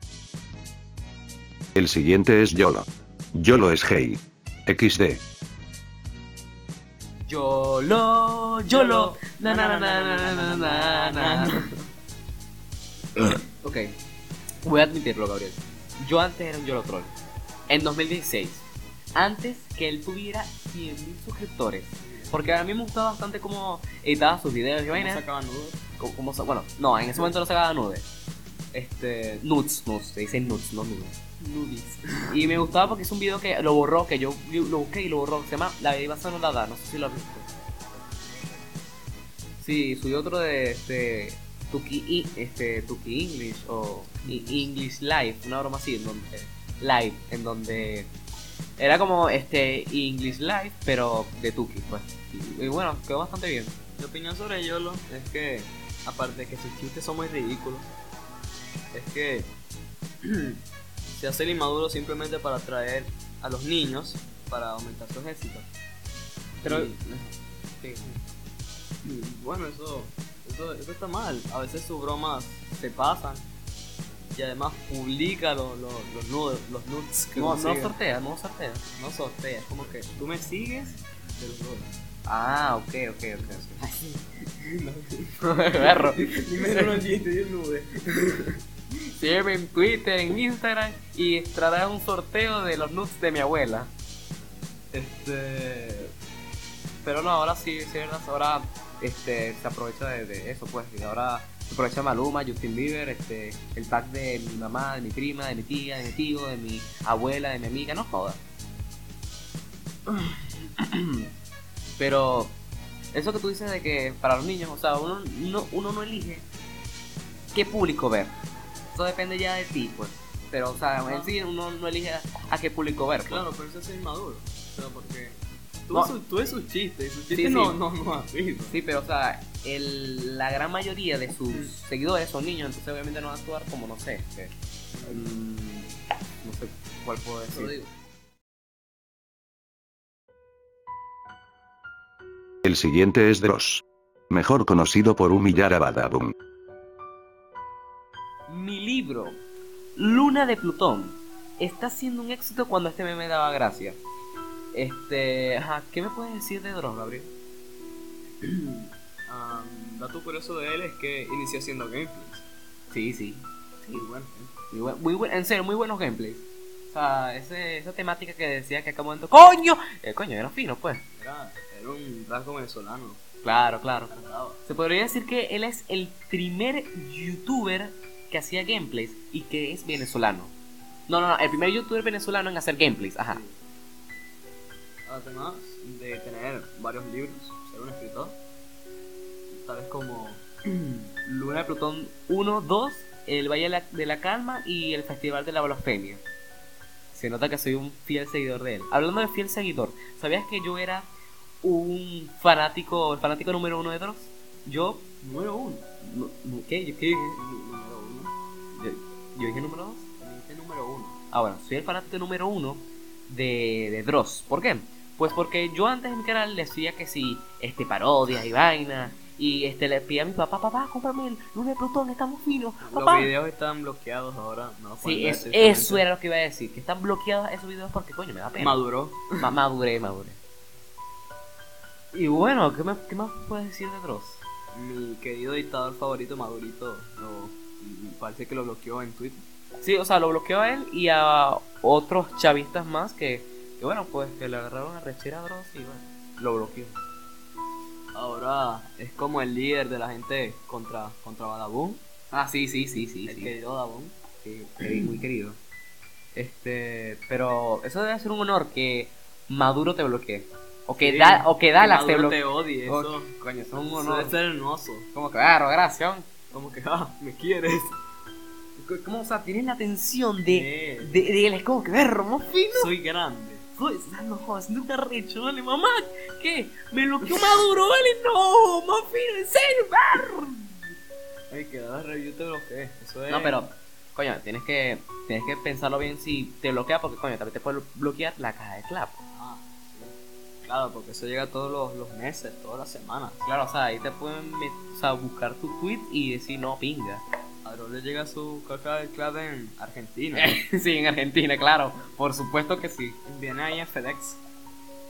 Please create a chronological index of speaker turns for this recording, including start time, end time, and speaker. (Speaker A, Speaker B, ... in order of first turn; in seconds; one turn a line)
Speaker A: 1.8-5.2
Speaker B: 7.3-11.5
Speaker C: 8.7-11.9
Speaker B: 13.2-13.9
Speaker B: 14.6-17.1
Speaker B: 17.7-18.6
Speaker B: 19.1-25.2
Speaker C: 22.0-22.4
Speaker C: 24.9-25.8
Speaker B: 26.0-28.1
Speaker B: 28.7-31.2
Speaker C: 31.4-32.6
Speaker B: 32.3-37.5
Speaker B: 39.6-48.1
Speaker C: 44.2-44.7
Speaker B: 48.8-53.8
Speaker C: 54.0-57.9
Speaker C: 58.9-59.5
Speaker C: 60.2-60.6
Speaker C: 61.1-65.7
Speaker B: 66.6-68.2
Speaker C: 66.6-67.0
Speaker C: 69.0-73.5
Speaker C: 74.3-78.0
Speaker B: 77.3-78.8
Speaker C: 78.9-81.9
Speaker B: 82.3-83.9
Speaker C: 83.6-88.6
Speaker B: 85.4-87.0
Speaker B: 88.9-93.9
Speaker B: 94.9-96.1
Speaker B: 97.0-108.4
Speaker B: 110.1-111.3
Speaker B: 112.0-112.5
Speaker B: 113.1-116.5
Speaker B: 117.5-118.3
Speaker B: 118.9-123.5
Speaker C: 121.0-121.3
Speaker C: 123.3-128.8
Speaker B: 127.3-127.8
Speaker B: 128.7-134.5
Speaker C: 134.9-135.3
Speaker B: 135.1-137.9
Speaker A: 142.6-146.3
Speaker B: 148.5-149.4
Speaker B: 150.0-154.0
Speaker B: 154.7-157.3
Speaker C: 158.4-162.4
Speaker B: 162.9-164.0
Speaker C: 163.9-164.6
Speaker B: 164.7-171.0
Speaker C: 171.2-173.2
Speaker B: 173.4-174.1
Speaker C: 174.1-174.6
Speaker B: 174.7-180.5
Speaker B: 181.1-183.4
Speaker C: 183.3-183.6
Speaker C: 185.1-188.4
Speaker C: 189.6-191.0
Speaker B: 191.3-196.2
Speaker B: 197.1-201.1
Speaker B: 201.6-207.4
Speaker C: 205.3-205.8
Speaker C: 207.4-208.3
Speaker B: 208.8-210.1
Speaker C: 210.2-211.2
Speaker B: 211.3-223.3
Speaker C: 222.8-226.1
Speaker B: 225.0-228.8
Speaker C: 228.6-229.5
Speaker B: 229.4-230.4
Speaker B: 232.1-234.4
Speaker C: 234.7-239.4
Speaker B: 239.8-247.0
Speaker C: 248.2-252.0
Speaker B: 252.3-253.5
Speaker C: 253.3-254.1
Speaker B: 254.4-255.6
Speaker B: 256.3-264.4
Speaker C: 261.0-263.3
Speaker C: 263.9-265.1
Speaker B: 265.1-266.3
Speaker C: 266.5-268.0
Speaker B: 268.8-272.9
Speaker C: 270.5-271.2
Speaker C: 272.7-273.7
Speaker B: 273.8-280.9
Speaker C: 281.5-283.6
Speaker B: 283.3-289.2
Speaker C: 289.3-293.4
Speaker B: 293.4-297.2
Speaker C: 297.6-300.6
Speaker B: 300.4-303.2
Speaker C: 303.2-304.4